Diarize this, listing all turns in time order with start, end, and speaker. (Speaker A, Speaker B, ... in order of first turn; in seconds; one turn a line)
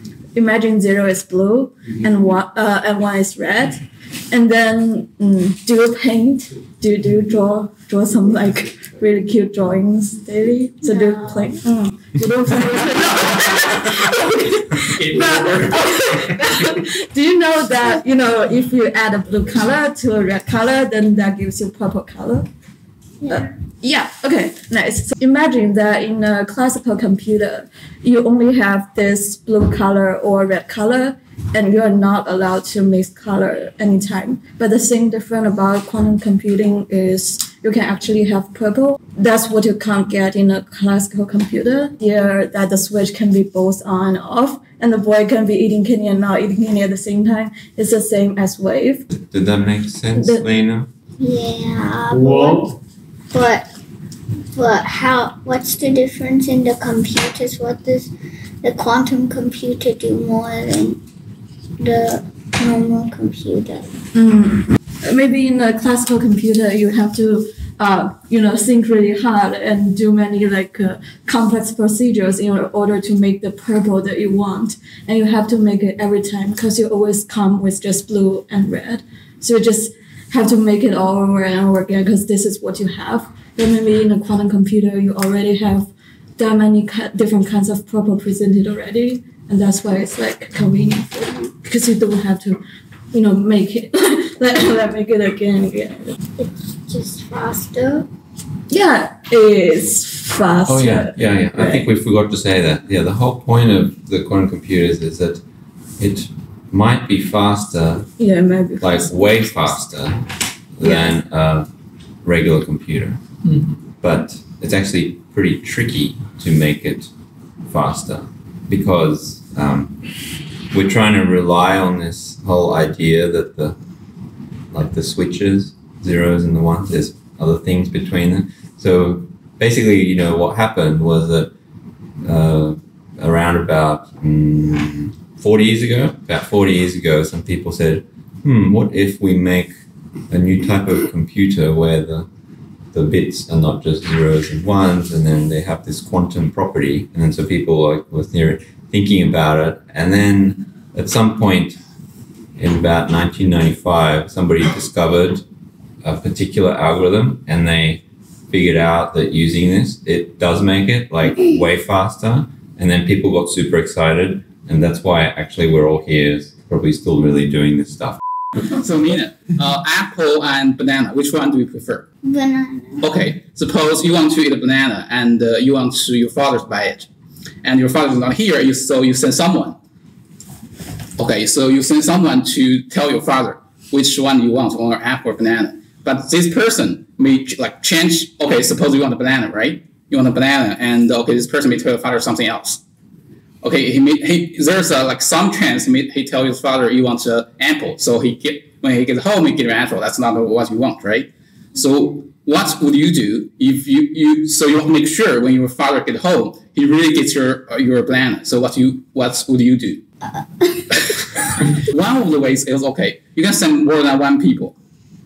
Speaker A: 0.3-22.5
Speaker B: 10.9-11.5
Speaker B: 23.2-23.5
Speaker A: 23.3-49.0
Speaker C: 49.1-50.9
Speaker A: 50.1-50.4
Speaker B: 51.2-52.7
Speaker B: 53.3-53.7
Speaker B: 54.5-58.1
Speaker B: 58.6-61.0
Speaker B: 61.8-63.9
Speaker A: 64.1-92.6
Speaker A: 93.1-96.2
Speaker B: 96.4-98.1
Speaker A: 98.7-101.9
Speaker C: 100.7-105.4
Speaker C: 106.0-108.1
Speaker A: 108.2-109.4
Speaker C: 108.8-110.2
Speaker C: 110.8-111.7
Speaker A: 110.8-111.2
Speaker C: 112.2-113.2
Speaker C: 114.0-117.1
Speaker C: 117.7-120.0
Speaker C: 120.7-123.8
Speaker C: 124.7-131.5
Speaker C: 132.2-139.7
Speaker C: 140.3-142.3
Speaker C: 142.9-151.8
Speaker C: 152.6-155.4
Speaker C: 156.0-168.2
Speaker D: 168.6-172.0
Speaker B: 172.2-173.0
Speaker D: 173.0-177.1
Speaker D: 177.6-179.8
Speaker D: 181.2-192.8
Speaker D: 193.6-210.0
Speaker D: 211.1-214.7